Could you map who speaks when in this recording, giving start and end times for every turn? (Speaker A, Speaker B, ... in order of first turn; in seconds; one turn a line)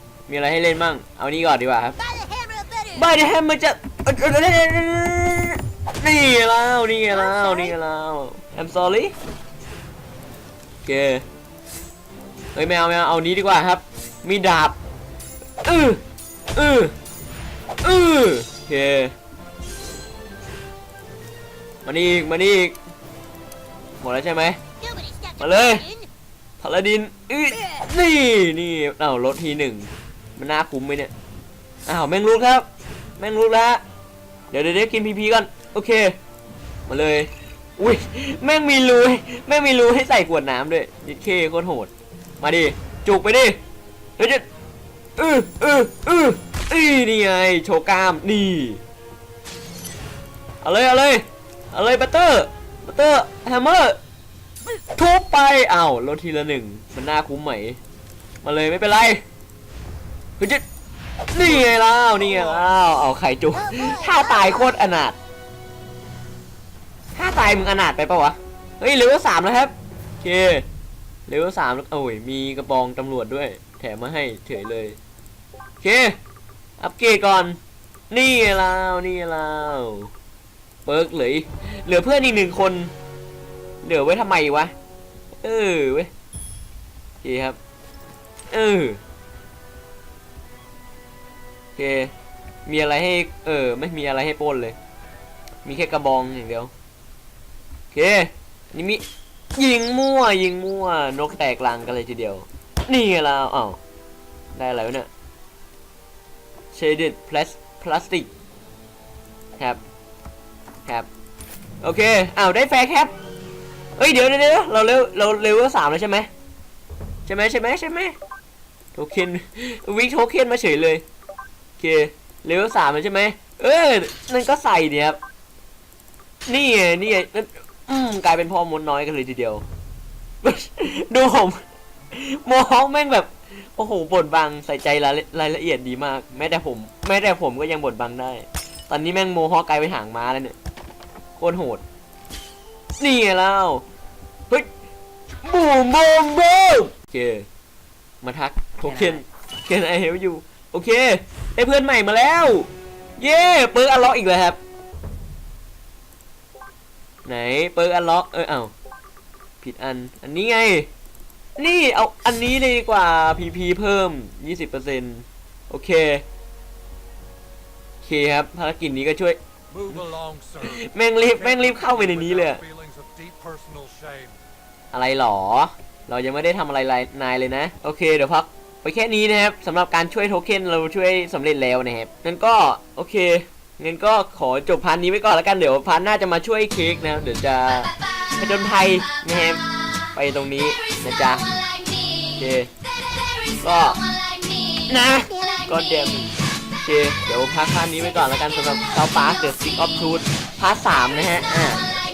Speaker A: 0.3-2.0
Speaker B: 2.0-3.1
Speaker A: 2.9-9.1
Speaker B: 7.1-7.8
Speaker A: 10.8-11.2
Speaker A: 12.5-14.8
Speaker A: 15.6-16.0
Speaker A: 16.6-16.9
Speaker A: 17.8-19.1
Speaker A: 21.9-22.8
Speaker A: 24.0-24.6
Speaker B: 24.8-26.1
Speaker A: 25.4-25.8
Speaker A: 26.6-31.1
Speaker A: 31.9-32.7
Speaker A: 33.2-33.8
Speaker A: 34.5-36.2
Speaker A: 36.9-43.6
Speaker A: 44.2-44.4
Speaker A: 45.2-48.8
Speaker A: 50.6-54.0
Speaker A: 54.9-57.8
Speaker A: 58.4-59.2
Speaker A: 60.4-60.6
Speaker A: 61.3-65.2
Speaker B: 63.5-64.8
Speaker A: 67.1-70.6
Speaker A: 71.3-75.0
Speaker A: 75.8-76.2
Speaker A: 76.8-77.6
Speaker A: 78.1-80.1
Speaker A: 80.8-82.9
Speaker A: 83.8-84.7
Speaker A: 85.3-86.1
Speaker A: 87.2-87.6
Speaker A: 88.5-89.0
Speaker A: 91.8-92.1
Speaker A: 92.7-94.8
Speaker A: 95.6-96.7
Speaker A: 97.9-99.0
Speaker A: 99.5-103.8
Speaker A: 104.5-105.1
Speaker A: 106.7-108.3
Speaker A: 111.8-113.1
Speaker A: 114.0-116.3
Speaker A: 117.2-118.1
Speaker A: 118.9-121.0
Speaker A: 121.8-125.2
Speaker A: 126.5-129.6
Speaker A: 130.4-131.6
Speaker A: 132.1-140.6
Speaker A: 141.4-141.8
Speaker A: 143.0-143.8
Speaker A: 145.4-147.4
Speaker A: 148.2-154.6
Speaker A: 157.2-158.7
Speaker A: 159.6-160.9
Speaker A: 161.6-166.2
Speaker A: 168.0-169.4
Speaker C: 169.7-174.4
Speaker A: 170.6-172.6
Speaker A: 174.9-189.6
Speaker A: 190.1-191.5
Speaker B: 191.5-192.2
Speaker A: 192.4-192.7
Speaker A: 193.6-194.0
Speaker B: 194.2-195.7
Speaker A: 194.9-201.9
Speaker B: 198.4-199.4